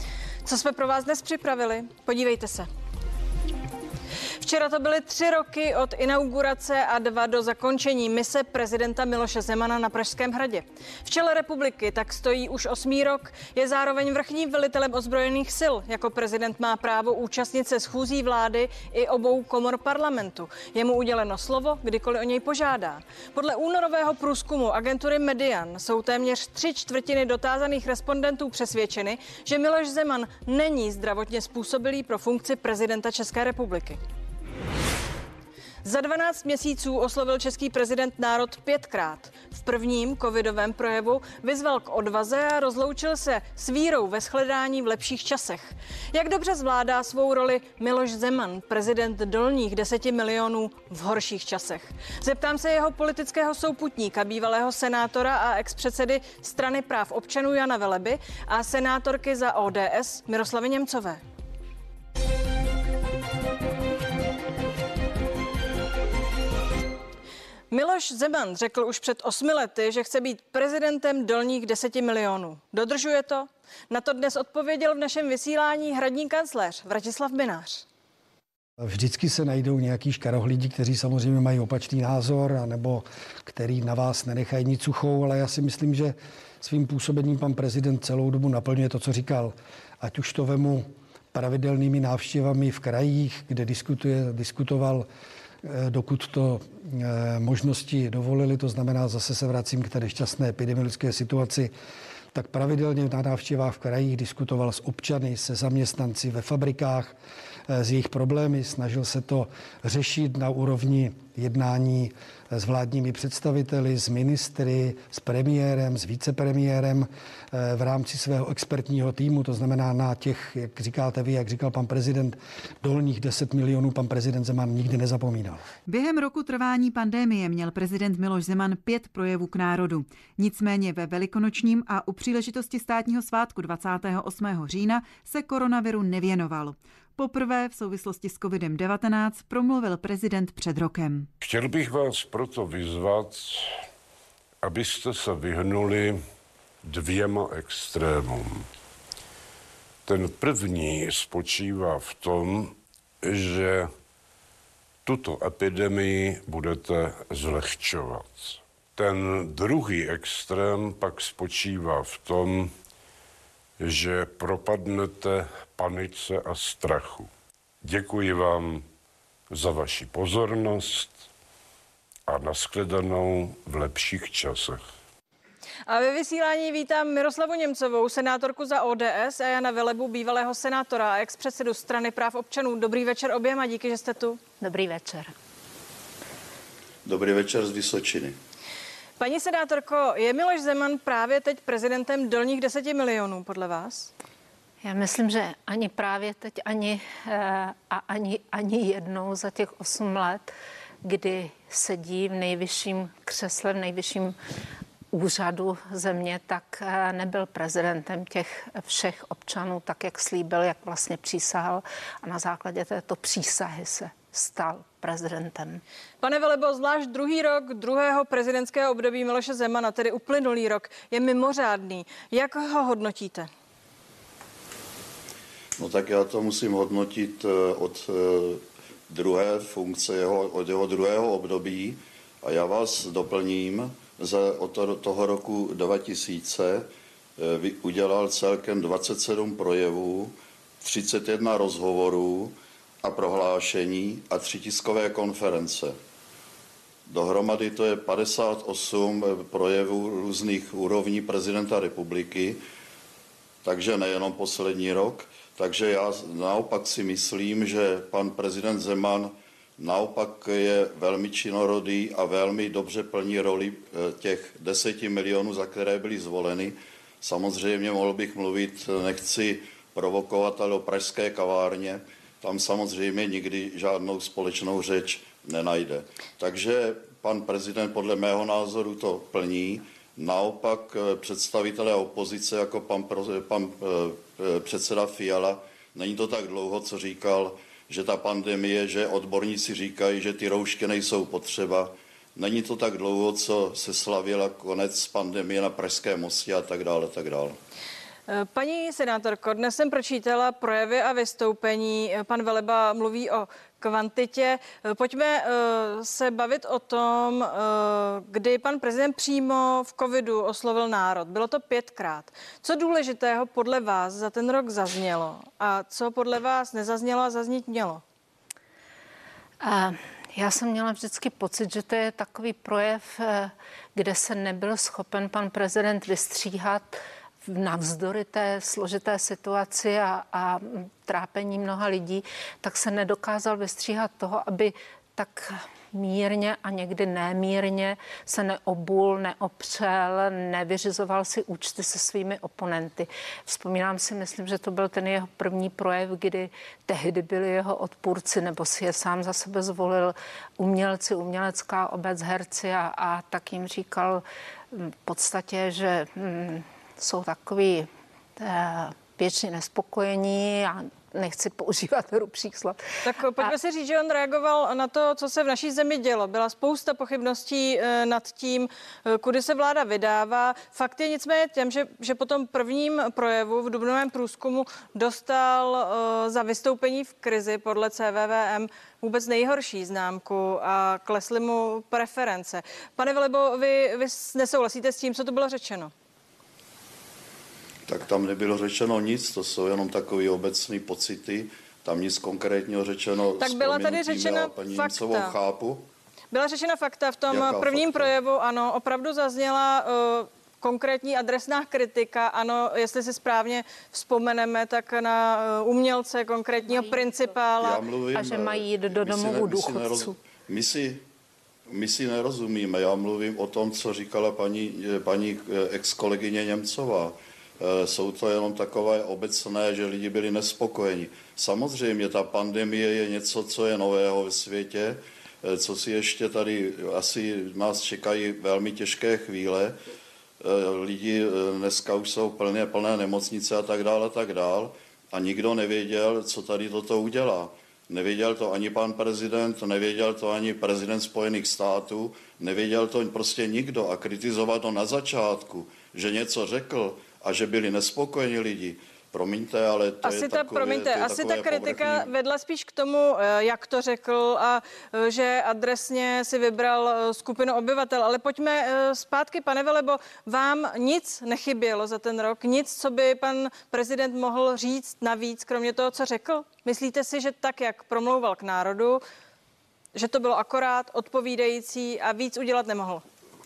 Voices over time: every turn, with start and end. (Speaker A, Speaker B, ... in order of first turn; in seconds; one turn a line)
Speaker A: 0.4-2.7
Speaker A: 4.4-34.0
Speaker A: 35.8-61.2
Speaker A: 67.7-77.8
Speaker B: 78.8-95.1
Speaker B: 95.6-101.7
Speaker B: 102.3-107.1
Speaker B: 107.7-125.6
Speaker C: 125.9-141.3
Speaker D: 141.4-143.7
Speaker D: 144.6-146.2
Speaker D: 146.8-148.7
Speaker D: 150.1-153.9
Speaker D: 155.1-162.7
Speaker D: 163.8-167.3
Speaker D: 167.8-168.8
Speaker D: 169.5-171.2
Speaker D: 172.3-174.8
Speaker A: 175.9-184.4
Speaker E: 184.6-185.3
Speaker F: 187.0-188.3
Speaker A: 189.2-194.1
Speaker E: 194.8-200.5
Speaker E: 201.0-204.3
Speaker E: 205.1-215.8
Speaker A: 216.2-223.5
Speaker F: 225.8-245.9
Speaker F: 247.1-252.6
Speaker F: 253.6-297.6
Speaker A: 298.3-318.0
Speaker E: 319.6-362.8
Speaker A: 363.0-385.9
Speaker F: 387.9-395.8
Speaker A: 393.4-395.3
Speaker A: 396.3-407.8
Speaker F: 397.3-398.1
Speaker E: 406.7-407.0
Speaker F: 407.6-411.0
Speaker E: 408.1-410.1
Speaker F: 411.7-429.8
Speaker F: 430.4-452.1
Speaker A: 450.0-469.0
Speaker A: 469.9-473.0